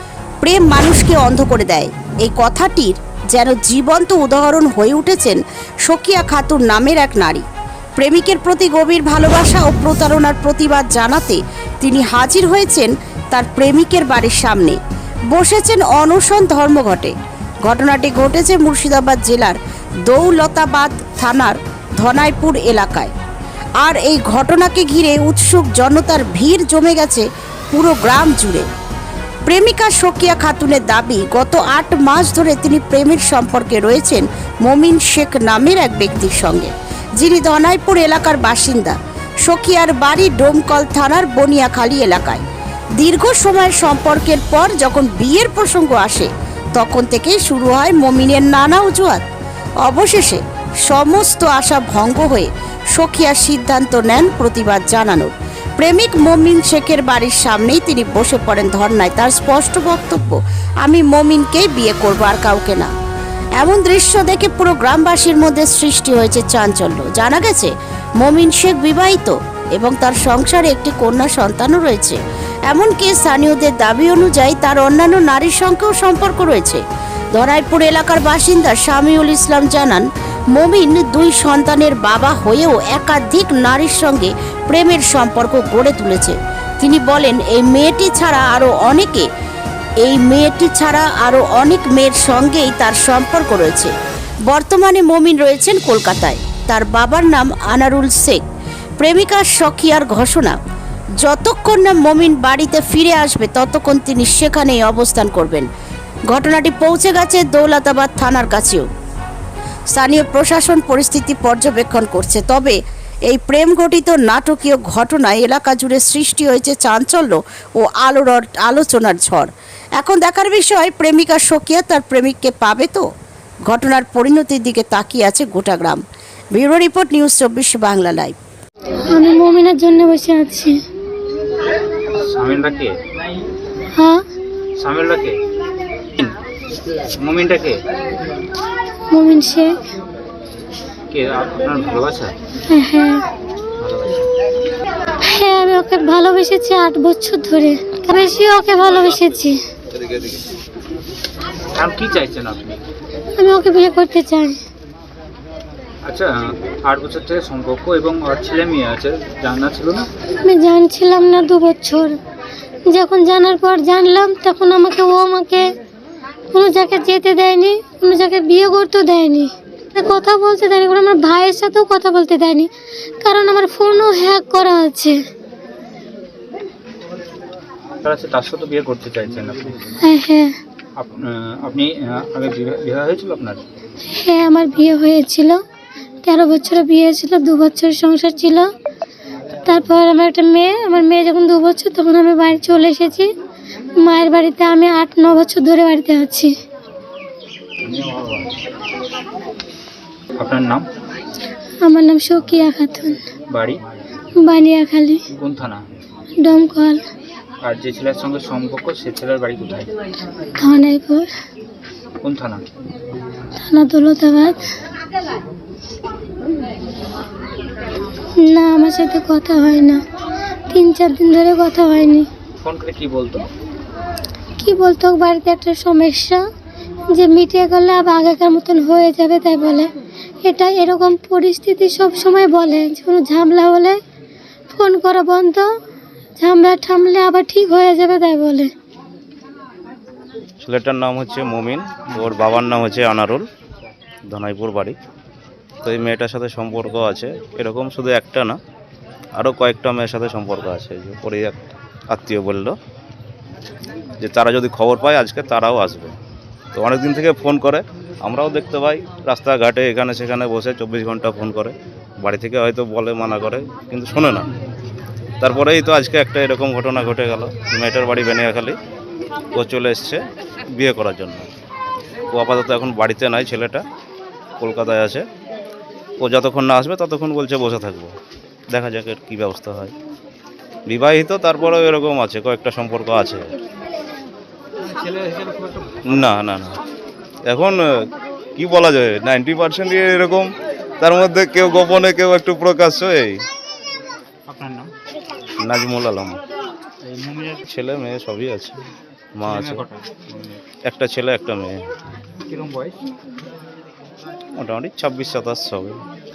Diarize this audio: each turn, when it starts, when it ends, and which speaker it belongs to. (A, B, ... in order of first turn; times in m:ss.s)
0:00.4-0:07.4 A
0:08.0-0:14.8 A
0:15.3-0:23.1 A
0:23.8-0:28.7 A
0:29.5-0:42.4 A
0:43.0-0:49.3 A
0:49.8-1:02.9 A
1:03.6-1:16.8 A
1:17.4-1:29.3 A
1:30.0-1:33.9 A
1:34.5-1:38.4 A
1:39.0-1:40.6 A
1:41.2-1:45.7 A
1:46.3-1:48.9 A
1:49.9-2:03.0 A
2:03.7-2:06.0 A
2:06.5-2:08.4 A
2:09.1-2:10.8 B
2:12.1-2:12.9 C
2:14.0-2:14.2 B
2:14.8-2:15.4 C
2:17.2-2:17.8 C
2:19.1-2:19.8 B
2:21.1-2:22.4 C
2:22.7-2:23.3 B
2:23.8-2:24.3 C
2:25.2-2:29.6 B
2:31.7-2:32.8 C
2:33.4-2:34.6 B
2:36.0-2:40.1 C
2:40.4-2:42.2 B
2:42.9-2:45.7 B
2:46.5-2:52.7 B
2:53.2-2:55.2 B
2:58.0-3:00.0 C
3:00.0-3:00.6 B
3:01.0-3:03.6 C
3:04.1-3:05.6 B
3:06.2-3:08.7 B
3:09.6-3:13.3 B
3:14.0-3:16.6 B
3:17.8-3:18.6 C
3:20.4-3:20.8 C
3:21.8-3:23.2 B
3:23.5-3:23.8 C
3:24.4-3:25.3 B
3:25.3-3:25.8 C
3:26.4-3:27.0 B
3:27.6-3:29.9 C
3:30.6-3:31.3 B
3:32.2-3:32.6 C
3:33.6-3:34.7 B
3:38.4-3:40.0 B
3:40.7-3:42.3 B
3:42.6-3:43.5 C
3:44.6-3:46.4 B
3:47.1-3:49.9 B
3:50.4-3:54.0 B
3:54.7-3:55.7 B
3:56.4-3:58.7 B
4:00.6-4:03.4 D
4:04.3-4:05.0 D
4:05.8-4:08.6 D
4:09.4-4:12.8 D
4:14.2-4:16.2 D
4:16.7-4:24.5 D
4:25.4-4:28.8 D
4:29.5-4:30.2 D
4:30.7-4:31.5 D
4:32.3-4:33.8 D
4:34.6-4:35.2 D
4:36.2-4:38.2 D
4:38.7-4:39.9 D
4:40.9-4:43.5 D
4:44.9-4:46.0 C
4:46.0-4:46.8 D
4:47.5-4:47.8 D
4:48.6-4:53.4 D
4:54.5-4:54.9 C
4:55.6-4:56.4 D
4:57.0-4:57.6 C
4:57.6-4:58.8 D
4:59.4-4:59.9 D
4:59.5-5:00.6 C
5:00.9-5:01.8 D
5:02.5-5:03.0 C
5:04.6-5:06.0 D